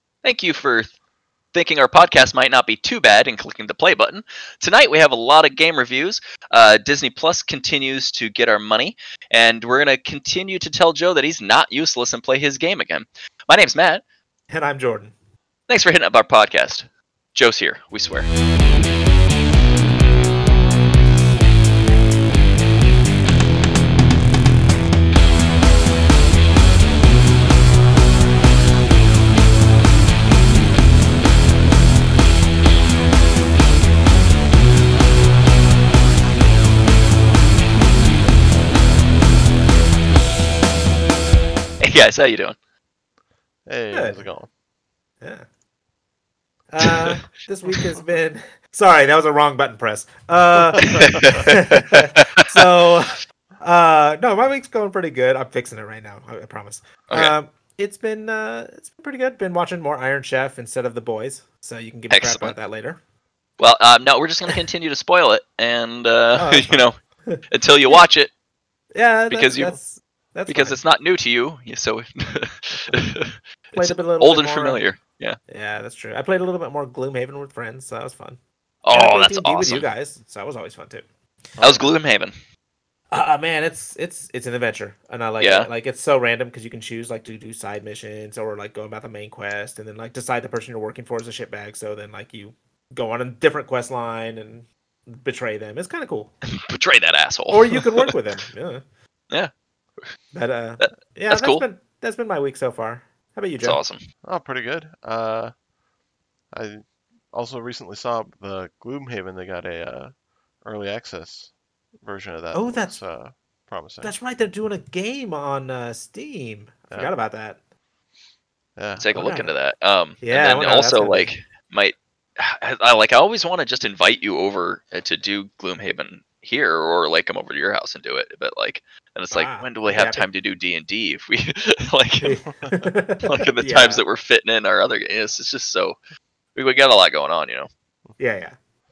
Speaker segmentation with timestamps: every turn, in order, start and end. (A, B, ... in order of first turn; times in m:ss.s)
0:00.2-0:00.9 A
0:01.5-0:14.0 A
0:14.5-0:15.1 B
0:15.7-0:18.3 A
0:41.8-0:42.6 A
0:43.7-0:44.5 C
0:43.9-0:44.2 B
0:45.2-0:45.5 B
0:46.7-1:03.0 B
0:46.8-0:47.2 A
0:50.8-0:52.6 A
1:02.1-1:02.6 A
1:03.6-1:07.0 A
1:06.4-1:08.0 B
1:07.5-1:08.3 A
1:08.9-1:10.8 B
1:09.3-1:09.8 A
1:10.5-1:15.4 A
1:13.8-1:14.8 B
1:15.5-1:18.4 B
1:18.8-1:19.9 A
1:18.9-1:21.0 B
1:21.6-1:22.4 A
1:23.1-1:36.3 B
1:25.4-1:25.7 A
1:36.5-1:38.1 A
1:37.5-1:38.8 B
1:40.3-1:43.8 B
1:40.8-1:41.6 A
1:43.6-1:44.0 A
1:44.2-1:45.5 C
1:46.5-1:54.1 C
1:52.5-1:53.0 B
1:54.0-1:57.6 B
1:58.8-1:59.1 C
1:59.0-2:12.4 A
1:59.1-1:59.5 B
2:00.2-2:01.3 B
2:09.3-2:10.3 B
2:12.2-2:14.0 B
2:13.2-2:16.0 A
2:16.6-2:17.7 A
2:18.2-2:18.6 B